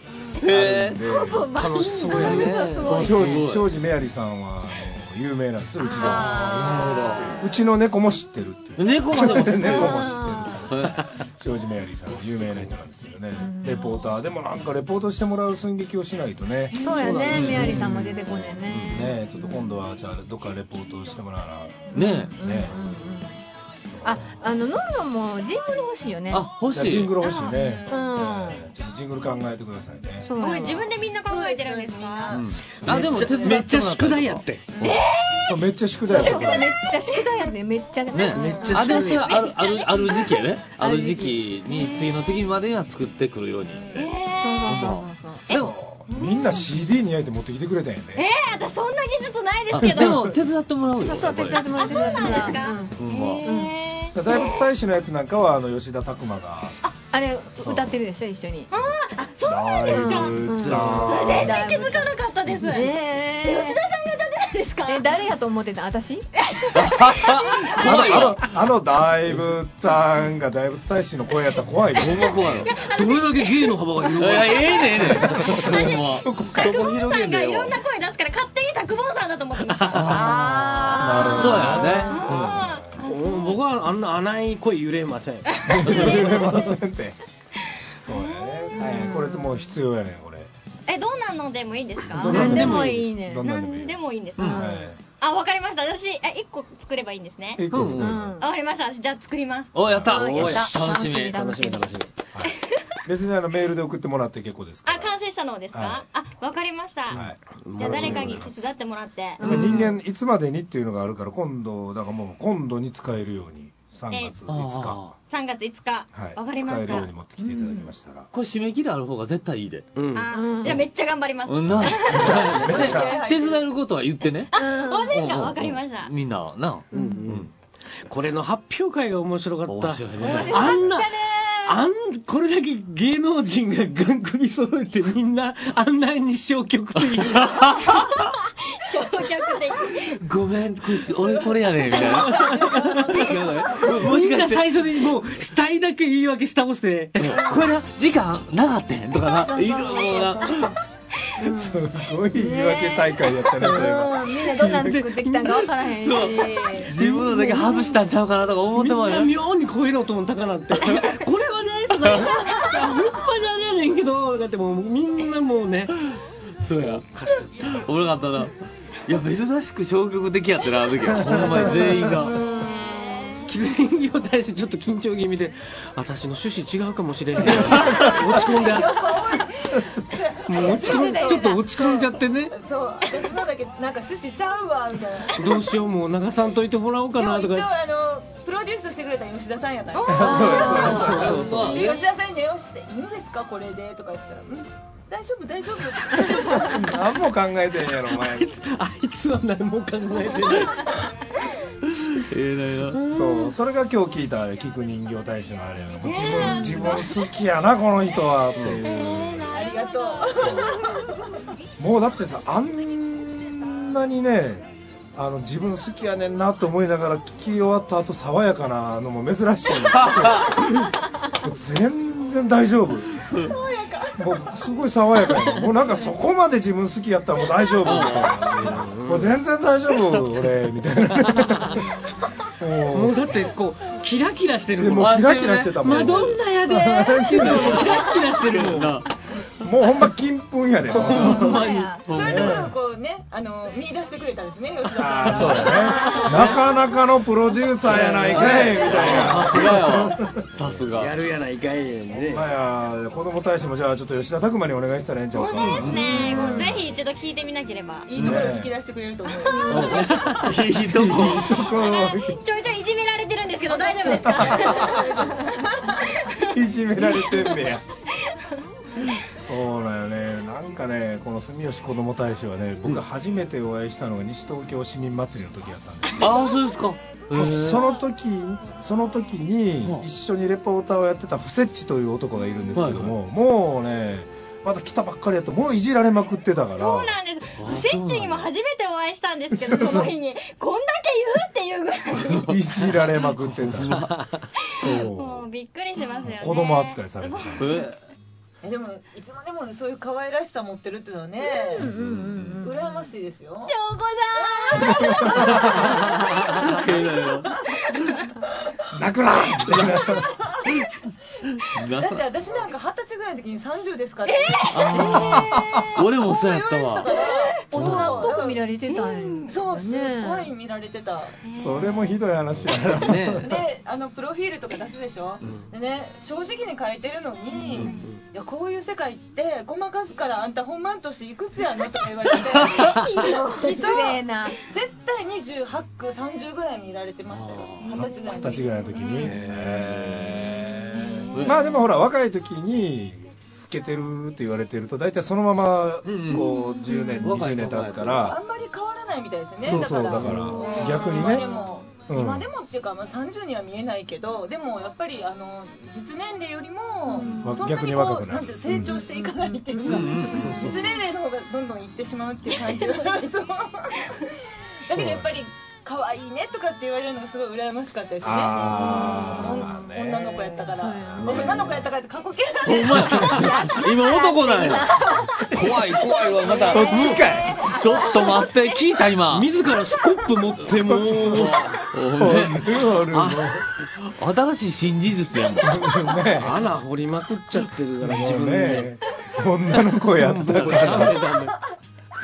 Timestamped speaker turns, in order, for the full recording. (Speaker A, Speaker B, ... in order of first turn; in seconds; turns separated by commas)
Speaker A: 0.4-1.0, Speaker B: 0.4-1.7, Speaker C: 1.1-3.4, Speaker D: 1.6-3.0, Speaker A: 2.1-3.7, Speaker B: 2.4-22.8, Speaker C: 5.8-7.5, Speaker A: 6.0-7.4, Speaker A: 8.8-11.1, Speaker C: 9.2-10.7, Speaker C: 13.4-14.2, Speaker C: 16.7-19.8, Speaker D: 16.8-17.9, Speaker A: 17.3-19.1, Speaker C: 21.9-23.4, Speaker A: 21.9-22.4, Speaker B: 23.9-24.4, Speaker C: 24.0-26.5, Speaker A: 26.3-27.2, Speaker B: 26.7-30.3, Speaker E: 27.2-27.9, Speaker F: 27.6-28.1, Speaker C: 27.9-28.6, Speaker C: 30.2-31.1, Speaker E: 30.4-32.4, Speaker F: 31.0-33.6, Speaker A: 32.3-35.0, Speaker D: 32.8-34.6, Speaker E: 34.8-35.6, Speaker B: 35.4-36.8, Speaker C: 36.1-39.2, Speaker E: 36.5-37.5, Speaker A: 38.1-44.1, Speaker D: 38.3-39.3, Speaker F: 38.4-38.8, Speaker E: 39.0-40.5, Speaker C: 40.8-42.1, Speaker F: 43.7-44.1, Speaker E: 44.0-44.9, Speaker C: 44.4-45.5, Speaker A: 44.7-45.7, Speaker B: 45.5-48.3, Speaker C: 46.2-46.6, Speaker E: 48.2-50.3, Speaker A: 49.7-53.5, Speaker B: 49.8-50.4, Speaker C: 51.0-53.7, Speaker E: 51.6-54.7, Speaker B: 52.5-53.1, Speaker B: 54.1-56.8, Speaker C: 57.1-58.9, Speaker B: 57.5-58.0, Speaker E: 58.7-65.2, Speaker B: 59.4-61.6, Speaker C: 59.9-63.8, Speaker C: 64.9-66.3, Speaker E: 66.5-68.2, Speaker A: 66.7-68.5, Speaker B: 67.8-72.7, Speaker A: 72.0-72.7, Speaker E: 72.7-73.7, Speaker D: 72.9-75.5, Speaker A: 74.2-77.8, Speaker E: 74.9-80.4, Speaker B: 75.2-76.8, Speaker A: 79.9-80.4, Speaker C: 80.0-82.2, Speaker E: 80.9-81.4, Speaker B: 80.9-83.0, Speaker A: 81.2-82.6, Speaker E: 82.0-83.6, Speaker D: 83.0-85.9, Speaker E: 85.5-86.5, Speaker B: 85.7-87.2, Speaker B: 88.0-90.5, Speaker E: 88.1-88.9, Speaker C: 88.7-89.7, Speaker E: 90.9-92.9, Speaker C: 92.2-93.5, Speaker D: 92.2-92.9, Speaker B: 92.2-95.0, Speaker A: 92.3-92.7, Speaker E: 93.4-97.6, Speaker C: 94.4-94.9, Speaker B: 97.6-98.4, Speaker A: 97.7-98.2, Speaker C: 97.9-98.5, Speaker E: 98.4-99.8, Speaker A: 99.7-101.5, Speaker B: 99.9-100.1, Speaker C: 100.1-101.9, Speaker D: 100.1-102.1, Speaker B: 102.3-105.1, Speaker E: 104.9-107.2, Speaker B: 105.7-106.0, Speaker B: 107.1-108.7, Speaker D: 107.6-108.5, Speaker E: 107.8-109.8, Speaker C: 109.4-110.0, Speaker B: 109.4-115.1, Speaker E: 114.1-114.4, Speaker A: 114.5-115.1, Speaker E: 115.2-117.1, Speaker B: 116.1-118.3, Speaker C: 117.4-117.9, Speaker A: 118.3-119.9, Speaker D: 120.0-120.3, Speaker E: 120.1-122.8, Speaker C: 120.3-120.9, Speaker A: 121.5-124.5, Speaker B: 121.7-123.2, Speaker F: 122.5-123.8, Speaker E: 124.5-126.1, Speaker C: 124.5-125.3, Speaker A: 125.1-127.5, Speaker C: 126.9-127.3, Speaker D: 126.9-127.5, Speaker D: 128.0-131.1, Speaker A: 129.7-131.0, Speaker C: 130.2-131.8, Speaker D: 131.7-137.8, Speaker A: 137.1-138.3, Speaker E: 137.8-140.2, Speaker A: 140.1-144.7, Speaker E: 141.9-142.8, Speaker D: 142.1-147.5, Speaker F: 142.4-143.6, Speaker A: 147.2-150.8, Speaker C: 147.3-147.7, Speaker C: 149.2-150.8, Speaker C: 151.4-157.8, Speaker B: 151.4-155.0, Speaker D: 154.6-156.3, Speaker A: 156.0-159.3, Speaker D: 156.9-157.9, Speaker D: 158.8-166.0, Speaker A: 162.1-162.4, Speaker A: 166.6-167.1, Speaker D: 166.8-167.9, Speaker A: 167.7-168.6, Speaker A: 169.1-172.4, Speaker B: 171.2-172.0, Speaker C: 171.5-173.5, Speaker D: 173.5-179.0, Speaker F: 177.2-185.6, Speaker B: 177.7-178.1, Speaker A: 177.7-178.1, Speaker B: 179.6-180.2, Speaker D: 180.5-182.6, Speaker D: 185.3-187.7, Speaker F: 187.2-196.9, Speaker E: 189.9-191.2, Speaker B: 190.1-191.6, Speaker A: 190.8-192.0, Speaker D: 190.9-191.8, Speaker B: 196.5-198.7, Speaker D: 198.1-200.9, Speaker A: 201.9-203.0, Speaker D: 202.9-203.5, Speaker B: 203.1-209.6, Speaker E: 206.0-207.2, Speaker C: 206.5-206.8, Speaker E: 208.8-210.9, Speaker F: 209.5-211.2, Speaker B: 210.4-210.8, Speaker B: 211.8-223.3, Speaker A: 220.0-220.6, Speaker A: 223.2-223.6, Speaker F: 223.4-224.6, Speaker B: 224.2-231.9, Speaker A: 227.8-228.8, Speaker D: 228.5-229.4, Speaker D: 231.3-231.8, Speaker B: 232.6-233.4, Speaker D: 232.9-235.2, Speaker B: 234.8-237.9, Speaker A: 235.0-236.4, Speaker D: 235.8-239.0, Speaker A: 237.3-239.1, Speaker B: 239.6-241.6, Speaker D: 240.9-242.0, Speaker C: 241.0-242.1, Speaker A: 241.1-242.6, Speaker F: 242.1-246.5, Speaker B: 242.2-242.7, Speaker B: 245.0-250.7, Speaker D: 245.2-246.6, Speaker C: 246.1-246.3, Speaker D: 247.9-250.1, Speaker A: 248.1-251.1, Speaker D: 250.9-252.5, Speaker B: 252.1-256.8, Speaker E: 255.3-258.4, Speaker A: 255.6-256.4, Speaker C: 256.1-256.7, Speaker F: 258.1-260.4, Speaker B: 258.2-258.7, Speaker A: 258.2-258.5, Speaker E: 259.3-260.4, Speaker A: 259.7-261.6, Speaker D: 260.1-260.4, Speaker B: 260.7-262.4, Speaker E: 261.2-268.6, Speaker F: 263.6-266.2, Speaker B: 264.1-265.1, Speaker B: 266.3-267.8, Speaker B: 269.3-276.4, Speaker A: 276.2-277.9, Speaker B: 277.3-287.1, Speaker A: 282.8-283.1, Speaker E: 286.8-292.6, Speaker A: 287.6-288.5, Speaker B: 289.5-290.1, Speaker B: 292.4-294.1, Speaker A: 293.4-294.2, Speaker D: 294.1-294.4, Speaker E: 294.6-297.9, Speaker B: 294.8-295.5, Speaker B: 296.2-297.7, Speaker A: 297.6-298.0, Speaker F: 298.6-301.9, Speaker C: 301.7-302.9, Speaker A: 301.8-302.6, Speaker F: 302.6-303.8, Speaker E: 303.7-306.9, Speaker F: 304.4-307.8, Speaker B: 304.7-306.0, Speaker A: 306.5-307.5, Speaker E: 307.9-308.2, Speaker B: 308.9-310.3, Speaker F: 310.1-310.8, Speaker A: 311.5-312.2, Speaker F: 311.9-315.4, Speaker E: 314.3-315.4, Speaker A: 314.7-317.1, Speaker B: 315.3-315.9, Speaker F: 316.1-318.7, Speaker E: 317.1-317.6, Speaker C: 317.7-320.5, Speaker A: 317.7-318.1, Speaker E: 318.9-319.5, Speaker F: 319.5-321.4, Speaker E: 321.4-322.2, Speaker B: 321.5-323.5, Speaker A: 322.9-323.5, Speaker F: 323.4-339.2, Speaker E: 327.7-328.1, Speaker D: 327.8-328.2, Speaker E: 332.7-334.0, Speaker C: 333.2-334.6, Speaker A: 337.3-338.0, Speaker E: 337.8-338.1, Speaker B: 337.9-348.4, Speaker E: 338.9-339.3, Speaker A: 339.2-340.2, Speaker E: 340.9-341.8, Speaker A: 341.3-341.6, Speaker A: 346.1-346.5, Speaker E: 346.3-347.2, Speaker A: 347.2-348.4, Speaker F: 348.2-373.6, Speaker B: 349.6-351.5, Speaker C: 350.3-350.6, Speaker E: 350.7-351.8, Speaker B: 352.1-352.5, Speaker C: 357.1-357.6, Speaker B: 357.4-359.0, Speaker C: 358.7-360.9, Speaker A: 359.9-360.5, Speaker B: 360.3-360.9, Speaker E: 362.5-363.3, Speaker B: 364.9-365.4, Speaker B: 368.2-371.9, Speaker C: 368.6-369.8, Speaker C: 370.7-371.8, Speaker A: 372.6-379.5, Speaker C: 373.1-378.4, Speaker B: 376.6-377.7, Speaker E: 376.6-377.6, Speaker D: 379.3-381.8, Speaker B: 381.1-381.5, Speaker A: 381.1-382.7, Speaker B: 382.1-383.7, Speaker D: 383.1-383.6, Speaker A: 384.0-385.9, Speaker B: 385.6-386.6, Speaker D: 386.3-388.9, Speaker B: 388.0-391.2, Speaker D: 390.2-391.6, Speaker A: 390.9-391.1